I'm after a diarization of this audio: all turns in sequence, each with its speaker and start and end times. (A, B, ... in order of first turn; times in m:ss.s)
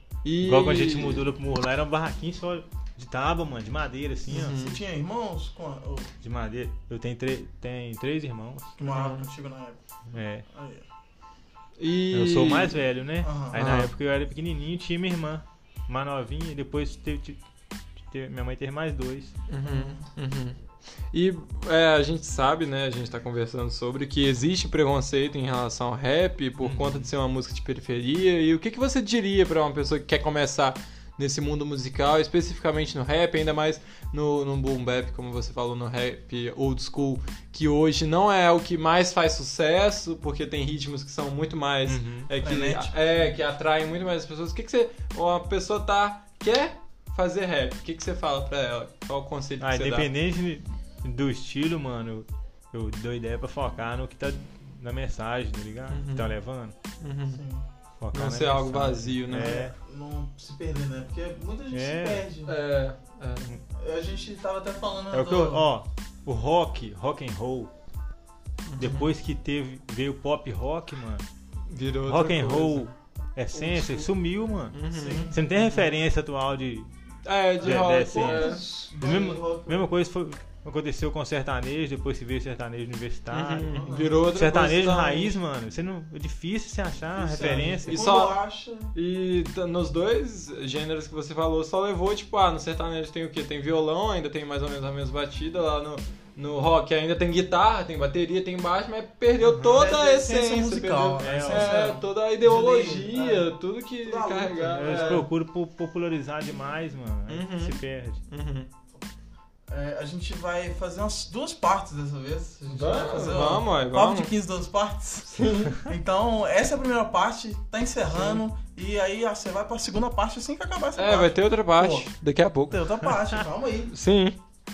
0:00.2-0:01.3 A
0:00.4-0:04.6 B
0:04.3-0:06.1 C
0:04.3-0:04.8 A
0:06.2-0:08.7 B
0:08.8-0:09.8 C
0:08.8-0:09.3 A
0:10.1-0:10.4 B
0:10.5-0:10.8 C
0:11.8-0:12.8 A
0:12.1-0:17.4 B
0:13.2-0:13.6 C
0:13.5-0:13.9 A
0:18.1-0:19.3 B
0:19.5-0:20.6 A
0:19.6-0:20.0 C
0:21.1-0:50.1 A
0:26.6-0:27.1 B
0:41.8-0:42.3 B
0:42.4-0:43.0 C
0:49.6-0:56.7 B
0:55.9-0:56.3 A
0:57.0-0:57.4 A
0:57.3-0:57.6 C
0:58.0-0:59.7 B
0:58.1-0:59.6 A
0:59.4-1:02.6 C
1:01.7-1:02.2 B
1:02.4-1:03.5 A
1:03.7-1:05.6 C
1:05.1-1:07.7 B
1:08.7-1:09.1 A
1:08.8-1:11.2 B
1:11.7-1:12.9 A
1:12.0-1:14.8 B
1:13.5-1:14.1 A
1:14.7-1:15.9 A
1:14.9-1:15.4 C
1:15.3-1:16.9 B
1:17.2-1:19.4 A
1:17.6-1:19.9 C
1:17.6-1:28.0 B
1:23.3-1:25.4 A
1:23.7-1:24.2 C
1:27.1-1:28.9 C
1:27.4-1:28.4 A
1:28.9-1:45.3 A
1:39.4-1:39.9 B
1:39.7-1:43.5 C
1:41.2-1:41.7 B
1:44.0-1:45.0 C
1:44.7-1:48.2 B
1:47.3-1:48.7 A
1:49.7-2:02.1 C
1:52.7-1:54.3 A
1:55.3-1:55.8 A
1:58.1-1:58.4 A
2:01.0-2:02.8 A
2:02.7-2:03.9 C
2:03.9-2:04.4 A